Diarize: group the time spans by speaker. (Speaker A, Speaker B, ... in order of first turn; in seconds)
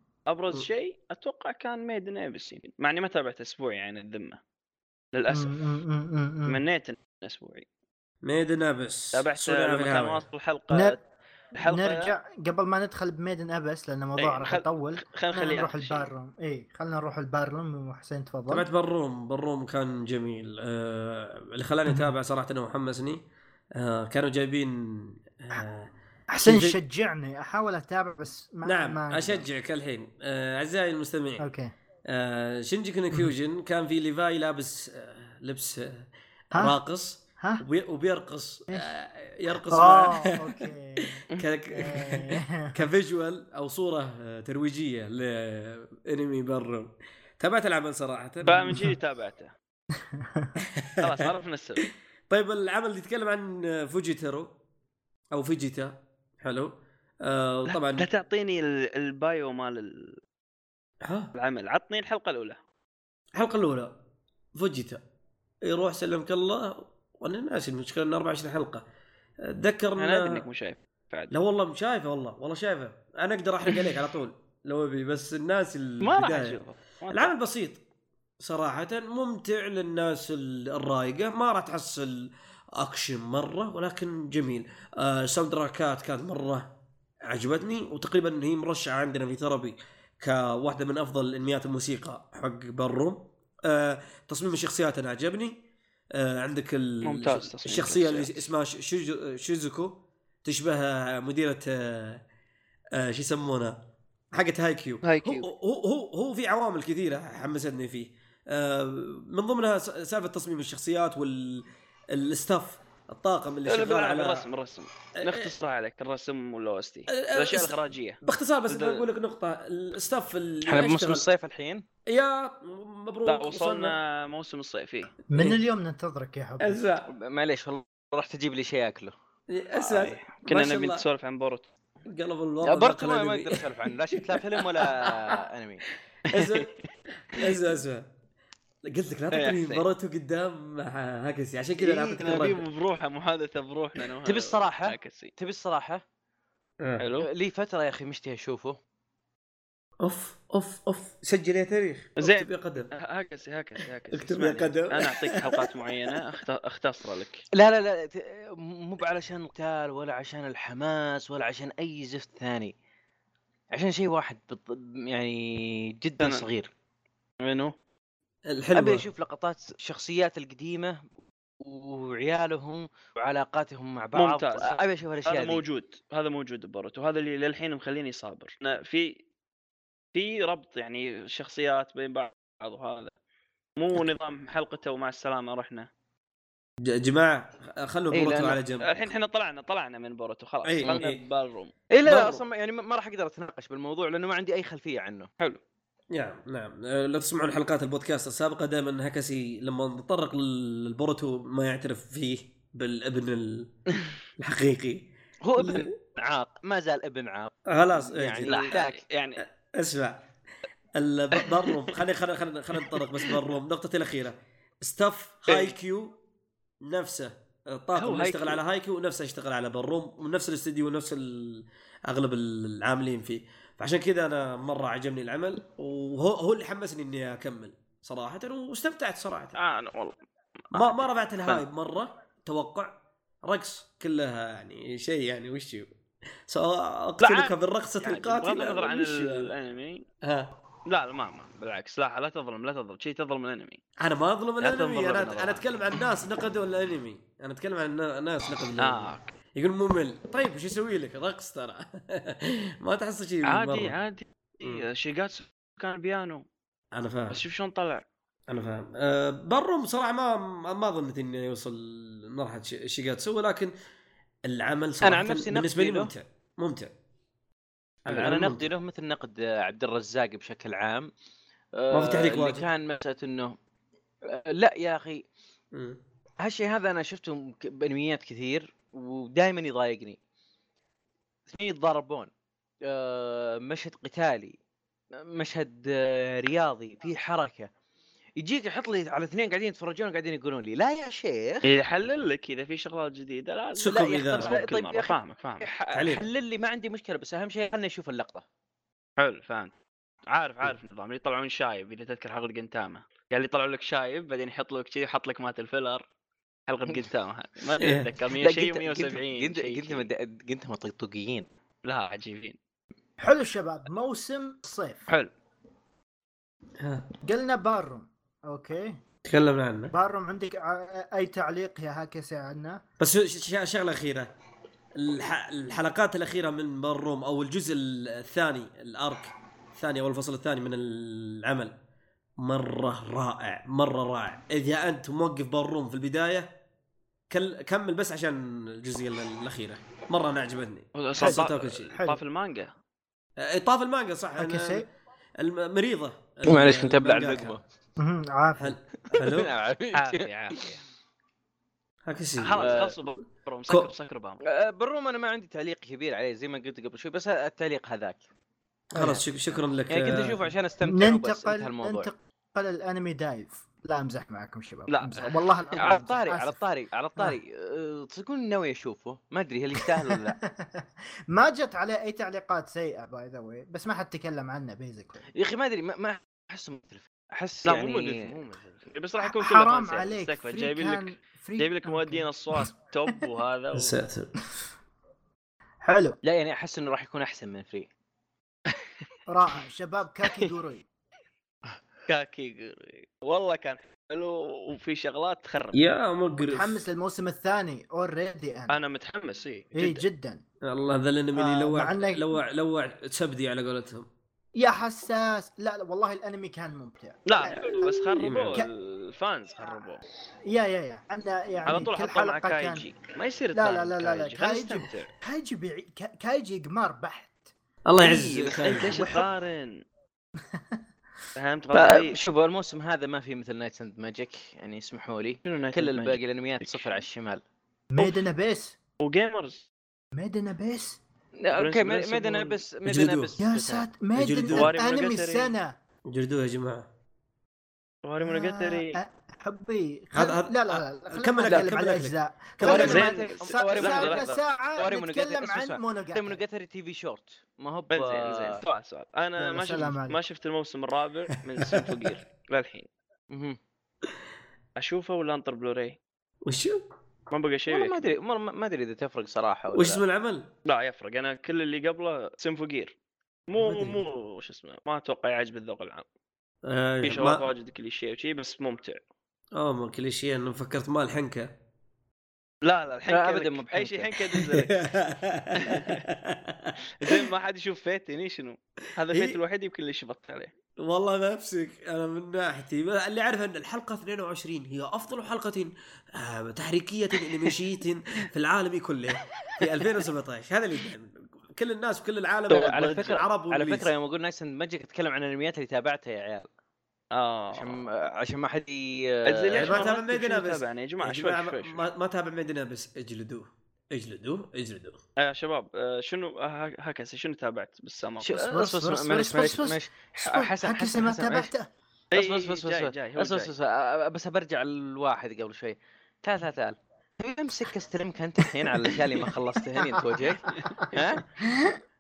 Speaker A: 0.3-4.4, 5.1-5.6, 6.5-7.7, 9.1-11.0, 11.6-12.1, 14.2-16.1, 48.5-49.5, 51.0-51.9, 57.7-60.2, 61.4-62.6, 70.0-71.3, 76.0-77.3, 97.0-98.5, 105.0-105.5, 113.7-119.0, 123.3-125.2, 129.8-131.7, 136.3-136.7, 139.3-139.8, 141.8-145.3, 147.0-147.3, 152.2-157.4, 167.4-167.7, 174.2-179.2, 180.1-183.1, 183.8-185.9, 188.8-192.4, 208.4-209.4, 211.5-211.9, 215.5-215.8, 218.0-218.6, 229.6-230.2, 230.7-231.6, 237.2-240.1, 240.9-243.8, 244.6-245.6, 248.8-249.3, 253.5-256.4, 257.3-258.1, 291.6-295.7, 299.2-299.7, 300.3-306.1, 306.7-310.1, 311.9-312.6, 340.9-342.7, 349.9-350.8, 352.4-354.4, 364.9-366.1, 377.7-383.9, 392.1-395.8, 398.7-400.0, 407.3-410.0, 411.7-415.1, 418.0-419.8, 421.4-422.2, 425.4-427.0, 428.0-428.2, 429.0-429.7, 431.6-432.6, 434.5-435.5, 438.0-439.0, 442.6-444.4, 447.9-452.9, 454.8-456.0, 457.3-458.1, 460.7-462.9, 463.5-466.1, 467.0-469.0, 472.6-474.9, 475.6-476.1, 477.0-480.5, 497.1-497.8, 499.3-501.8, 505.2-508.5, 512.1-513.5
Speaker B: 5.3-6.6, 10.7-11.0, 11.6-18.6, 26.3-29.4, 31.4-31.7, 37.4-37.6, 39.7-41.2, 41.7-42.8, 48.7-48.9, 50.0-50.6, 125.3-126.8, 313.2-315.1, 317.2-319.0, 319.9-322.8, 341.2-342.2, 344.4-344.9, 348.0-348.8, 358.9-359.2, 360.8-366.6, 370.0-375.2, 379.2-382.7, 385.8-386.2, 389.3-390.9, 396.4-398.8, 399.8-400.4, 401.4-402.4, 404.6-408.7, 410.5-412.9, 413.6-417.5, 418.7-419.3, 420.5-420.8, 427.9-428.8, 430.1-431.0, 433.4-435.8, 438.2-446.4, 449.4-450.2, 508.3-511.7, 519.8-520.9, 521.4-521.8
Speaker C: 8.2-10.2, 18.5-23.2, 23.8-25.9, 26.4-26.8, 28.6-31.5, 32.1-48.9, 50.8-51.3, 52.3-54.5, 55.3-58.1, 61.0-61.3, 63.4-64.0, 64.5-65.0, 65.7-68.8, 69.4-70.5, 71.3-76.6, 77.1-77.8, 78.4-86.7, 87.3-95.6, 96.1-102.2, 103.0-103.8, 104.3-114.5, 115.2-115.5, 117.1-121.3, 122.1-124.0, 125.3-125.6, 126.6-127.1, 129.5-131.0, 132.1-133.6, 136.3-136.7, 137.3-138.1, 138.8-142.6, 150.0-152.9, 154.1-156.2, 168.5-169.1, 186.8-189.0, 190.7-191.2, 196.1-203.7, 204.4-205.9, 207.7-208.8, 209.6-210.2, 210.9-216.2, 216.8-229.6, 230.7-232.9, 233.4-235.9, 236.5-239.5, 240.2-240.5, 244.0-253.9, 256.9-257.4, 258.5-263.7, 264.4-266.9, 268.1-268.7, 271.9-272.7, 275.7-276.0, 293.8-294.6, 295.9-296.2, 307.8-308.1, 316.8-317.1, 319.2-319.9, 323.0-324.3, 324.9-331.8, 332.4-336.6, 337.3-341.9, 343.4-344.9, 345.4-347.6, 348.6-349.5, 352.1-352.8, 358.9-360.4, 383.7-384.3, 395.7-396.8, 400.6-404.1, 408.2-408.6, 417.9-419.1, 432.9-433.3, 434.2-434.8, 436.1-436.9, 440.1-443.0, 451.6-452.1, 456.4-456.8, 459.7-460.5, 466.6-467.5, 469.5-471.5, 474.4-477.2, 479.1-479.4, 480.8-493.9, 499.6-505.0
Speaker D: 120.7-121.8, 127.1-129.1, 132.6-135.8, 144.2-146.0, 147.2-148.8, 157.6-162.7, 163.7-166.7, 168.7-171.0, 171.6-175.6, 188.1-188.6, 191.9-195.3, 205.4-209.0, 265.0-266.1, 268.1-271.1, 271.8-273.6, 274.3-275.2, 276.4-280.2, 281.5-282.3, 282.9-284.6, 285.2-287.7, 288.4-291.7, 293.9-298.4, 308.4-311.5, 346.4-347.6, 349.1-350.7, 352.6-352.9, 354.5-358.2, 359.9-362.1, 365.8-370.4, 375.4-378.7, 386.2-387.9, 421.7-427.4, 431.4-433.9, 442.6-448.6, 453.3-453.6, 457.7-460.0, 473.1-474.4, 492.5-496.5, 497.5-499.8, 508.2-511.5, 512.1-521.2